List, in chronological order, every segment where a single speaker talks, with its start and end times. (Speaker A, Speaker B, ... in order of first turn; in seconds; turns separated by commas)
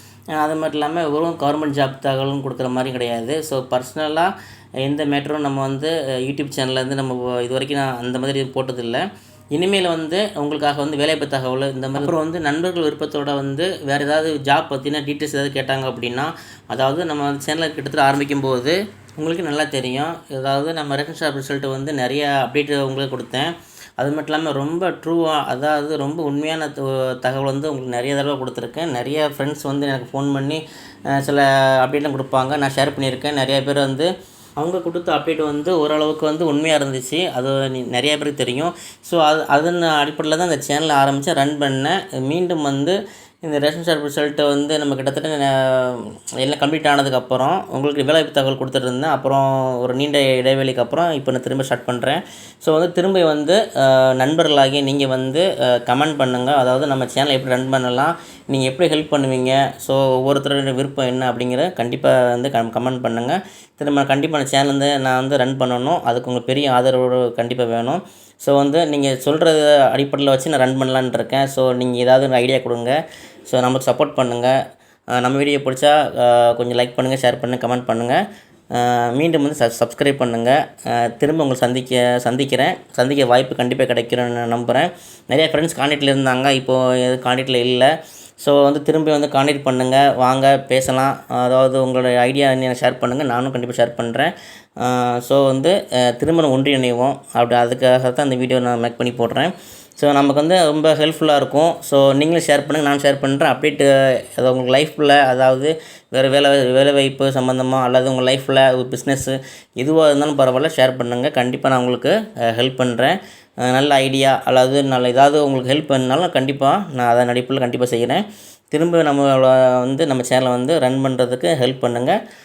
Speaker A: 0.3-74.6, Speaker A: 75.1-122.2